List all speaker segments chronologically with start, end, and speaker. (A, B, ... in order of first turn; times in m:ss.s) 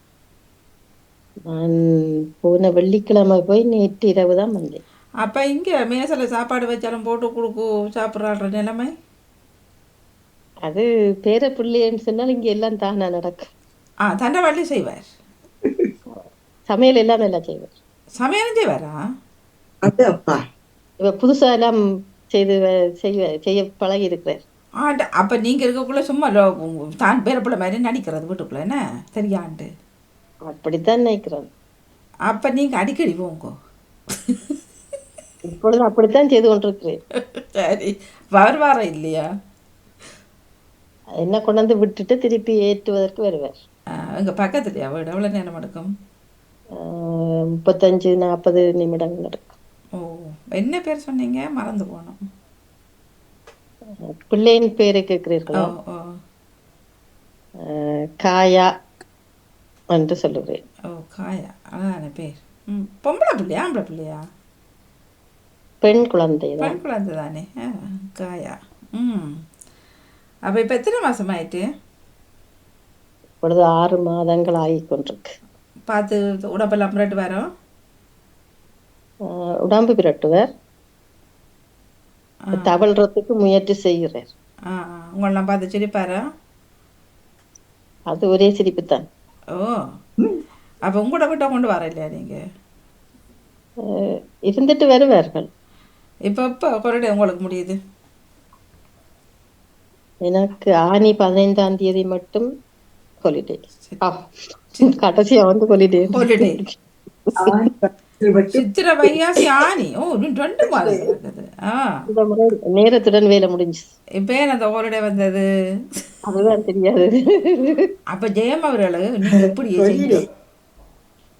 0:01.4-0:01.8 A
0:02.4-0:04.8 A
0:05.2-0:08.9 B
0:10.6-0:13.5 A
0:14.0-0:15.1 B
0:15.6-0:15.9 C
0:16.1-0:17.7 A
0:18.2-0:18.9 B
0:19.8-0:20.4 C
0:21.0-0:21.8 A
0:22.3-0:24.4 A
0:24.8-0:29.7 B
0:30.4-0:31.5 A
0:32.3-0:33.5 B
0:34.3-0:34.5 B
0:35.5-0:37.0 A
0:37.3-0:39.2 B
0:41.1-0:43.5 A
0:44.2-0:45.9 B
0:46.8-0:49.4 A
0:50.0-0:52.2 B
0:54.0-0:55.7 A
0:55.6-0:56.1 B
0:57.6-0:58.7 A
0:59.9-1:00.6 A
1:00.9-1:04.2 B
1:05.8-1:06.8 A
1:06.6-1:07.5 B
1:08.2-1:09.3 B
1:10.5-1:11.6 B
1:13.4-1:15.3 A
1:15.9-1:17.4 B
1:19.3-1:20.5 A
1:22.6-1:24.3 A
1:24.7-1:26.2 B
1:28.1-1:29.0 A
1:29.5-1:29.8 B
1:30.8-1:32.4 B
1:33.9-1:35.5 A
1:36.3-1:37.8 B
1:40.2-1:42.5 A
1:43.2-1:44.2 A
1:44.9-1:47.7 A
1:46.1-1:46.6 B
1:47.4-1:48.6 C
1:48.5-1:52.0 B
1:52.1-1:53.9 A
1:54.2-1:55.4 B
1:56.2-1:57.9 A
1:58.1-2:00.2 B
1:59.8-2:00.2 C